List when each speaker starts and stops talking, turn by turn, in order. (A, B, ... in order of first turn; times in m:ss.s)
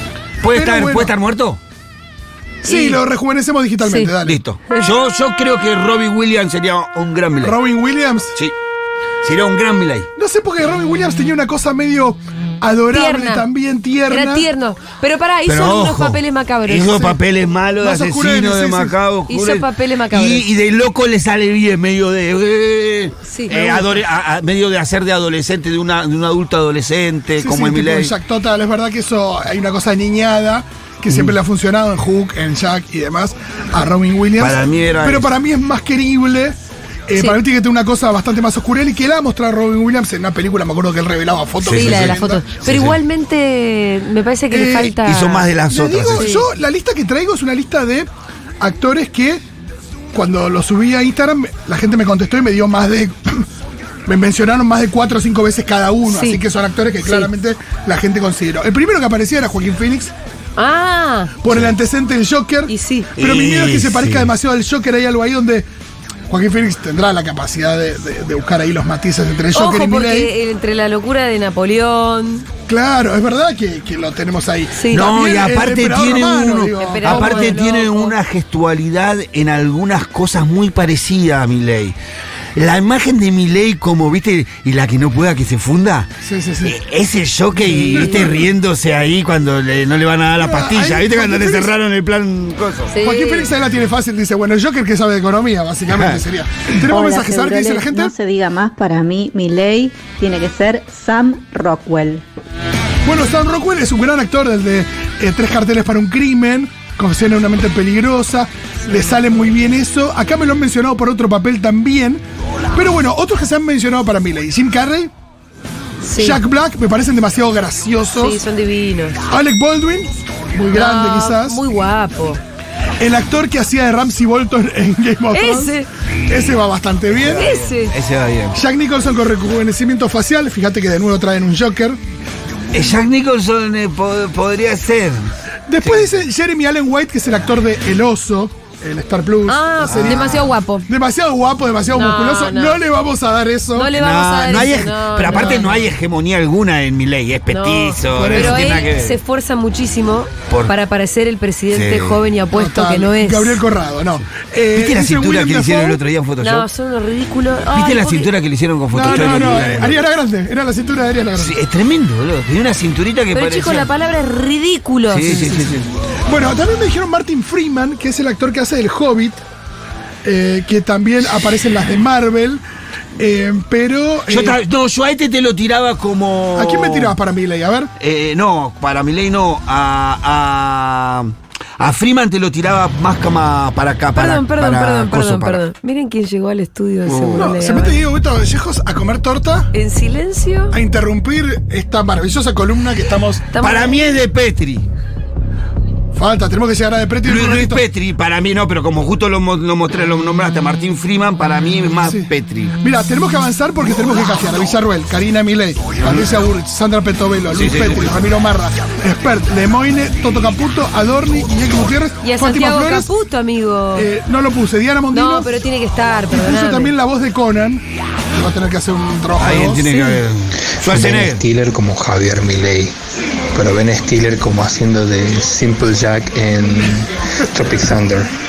0:00.4-0:01.6 A
0:00.5-0:01.2 B
0:02.6-0:04.4 B
0:02.6-0:03.0 C
0:03.8-0:04.1 C
0:04.2-0:07.6 A
0:07.4-0:08.4 B
0:09.2-0:10.1 A
0:10.2-0:14.5 B
0:12.9-0:13.5 C
0:14.1-0:16.9 C
0:15.4-0:28.1 A
0:16.8-0:17.2 B
0:17.8-0:19.0 B
0:19.3-0:20.4 C
0:23.2-0:23.5 C
0:23.5-0:24.0 B
0:27.4-0:42.4 B
0:31.1-0:31.3 A
0:34.4-0:35.3 A
0:41.6-0:43.0 A
0:41.7-0:45.5 C
0:44.5-0:45.0 B
0:45.0-0:46.3 A
0:45.7-0:48.1 B
0:46.1-0:46.5 C
0:48.6-0:49.4 B
0:50.1-0:53.5 B
0:54.1-1:00.1 B
0:56.1-0:56.4 C
0:57.0-0:57.3 C
1:00.6-1:01.3 C
1:01.4-1:05.7 B
1:01.5-1:01.7 A
1:02.7-1:03.1 C
1:03.2-1:04.3 A
1:06.3-1:10.3 B
1:09.5-1:12.4 C
1:12.7-1:17.6 B
1:14.7-1:15.0 C
1:14.9-1:22.0 A
1:16.8-1:18.2 C
1:22.5-1:26.1 A
1:26.2-1:26.8 B
1:26.6-1:32.9 A
1:27.6-1:28.3 C
1:27.7-1:28.5 B
1:30.4-1:31.8 B
1:32.9-1:33.5 C
1:33.0-1:38.1 B
1:35.9-1:36.2 A
1:36.9-1:42.2 D
1:43.0-1:52.2 B
1:52.7-1:55.1 B
1:56.0-1:56.4 C
1:56.2-1:58.4 B
1:58.2-1:59.2 C
1:59.3-2:01.6 B
2:00.7-2:02.4 C
2:03.0-2:07.5 B
2:05.3-2:05.9 C
2:07.1-2:08.6 A
2:07.3-2:07.9 C
2:08.5-2:12.0 B
2:12.7-2:15.2 A
2:15.7-2:24.0 B
2:15.8-2:16.1 A
2:19.5-2:20.9 C
2:19.9-2:20.5 A
2:21.9-2:22.8 C
2:23.7-2:25.9 C
2:24.0-2:29.2 A
2:25.3-2:25.6 B
2:27.5-2:33.6 C
2:28.2-2:28.8 B
2:30.5-2:30.7 A
2:31.7-2:32.2 A
2:32.5-2:36.0 B
2:34.7-2:36.7 A
2:36.4-2:38.3 C
2:37.7-2:40.0 A
2:38.9-2:41.6 B
2:39.0-2:39.8 C
2:41.3-2:43.9 A
2:43.3-2:45.4 C
2:45.1-2:45.9 A
2:45.3-2:45.7 B
2:46.3-2:49.4 B
2:50.2-2:52.6 B
2:53.2-2:54.6 B
2:54.3-2:57.2 A
2:56.5-2:57.9 B
2:58.0-3:05.6 A
3:04.1-3:08.0 C
3:07.0-3:07.5 A
3:07.3-3:09.7 B
3:09.7-3:10.8 C
3:10.7-3:13.4 B
3:13.5-3:14.2 C
3:13.6-3:14.8 A
3:16.1-3:17.8 B
3:17.2-3:22.8 A
3:22.8-3:33.1 B
3:27.5-3:28.2 A
3:32.2-3:34.1 C
3:33.9-3:35.5 B
3:35.1-3:36.9 C
3:36.3-3:40.0 B
3:39.4-3:41.4 A
3:40.8-3:42.9 E
3:43.5-3:48.3 E